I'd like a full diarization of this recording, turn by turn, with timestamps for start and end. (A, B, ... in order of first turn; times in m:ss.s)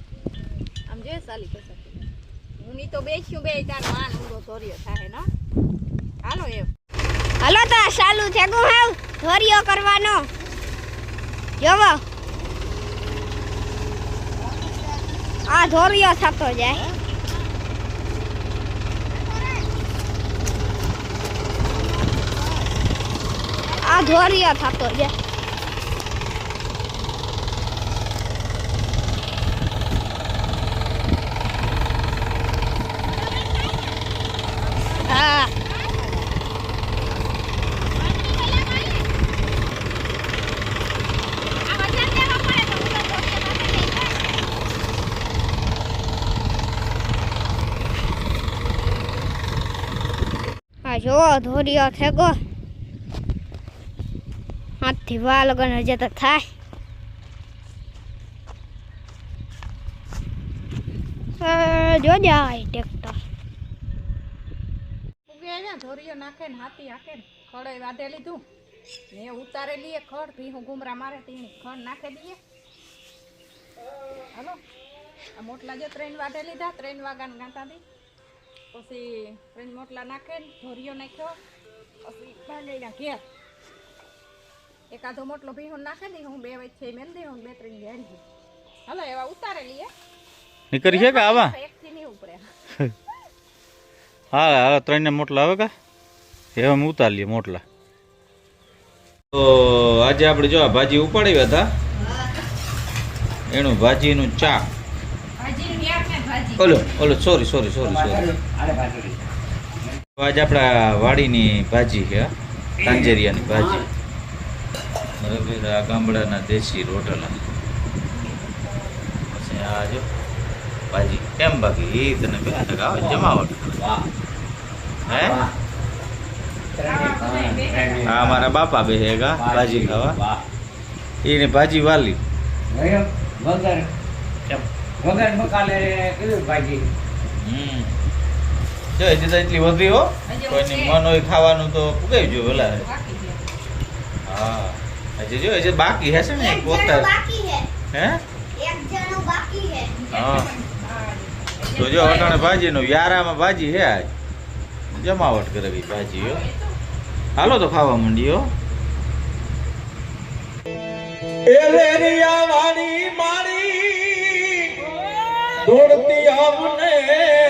0:00.9-0:02.0 A
0:02.6-0:05.3 A
0:06.2-0:06.7 A
0:07.4-0:10.3 B
0:11.6-0:12.0 B
0:15.5-0:16.8 B
0:19.2-0:19.7 A
0:23.6-0:24.5 A
0:23.8-0:25.1 B
0:33.0-0:36.3 A
0:35.1-0:35.5 B
0:38.0-0:39.1 A
0:41.6-0:44.3 A
0:50.8-0:52.4 B
0:54.8-0:56.5 B
1:01.4-1:03.2 B
1:05.3-1:08.4 A
1:09.1-1:12.4 A
1:14.3-1:14.6 A
1:15.4-1:17.8 A
1:18.7-1:21.4 A
1:22.0-1:23.2 A
1:24.9-1:28.2 A
1:28.9-1:29.9 A
1:30.7-1:31.6 C
1:30.8-1:32.5 A
1:34.3-1:35.7 C
1:36.6-1:37.6 C
1:39.3-1:41.7 C
1:43.5-1:44.6 C
1:45.4-1:46.8 A
1:46.6-1:48.3 C
1:47.8-1:49.2 D
1:50.2-1:52.3 C
1:52.8-1:53.9 D
1:52.8-1:53.9 C
1:55.2-1:57.4 C
1:58.1-1:59.1 A
1:59.3-2:00.0 C
2:00.9-2:03.8 C
2:03.0-2:04.0 D
2:05.1-2:05.4 C
2:05.1-2:05.5 D
2:06.8-2:08.5 D
2:06.8-2:08.3 A
2:08.0-2:10.2 C
2:09.4-2:10.4 D
2:11.2-2:12.2 C
2:12.7-2:13.9 D
2:14.5-2:16.9 D
2:17.4-2:17.9 C
2:19.0-2:22.9 C
2:20.3-2:21.0 A
2:22.2-2:23.4 A
2:24.2-2:27.1 C
2:26.3-2:27.7 B
2:27.9-2:28.2 C
2:28.6-2:29.9 B
2:29.9-2:32.7 A
2:30.1-2:30.5 C
2:31.8-2:34.1 C
2:34.9-2:36.4 C
2:36.1-2:36.8 A
2:37.4-2:38.5 C
2:41.6-2:42.6 E
2:43.1-2:43.7 E
2:45.7-2:46.8 E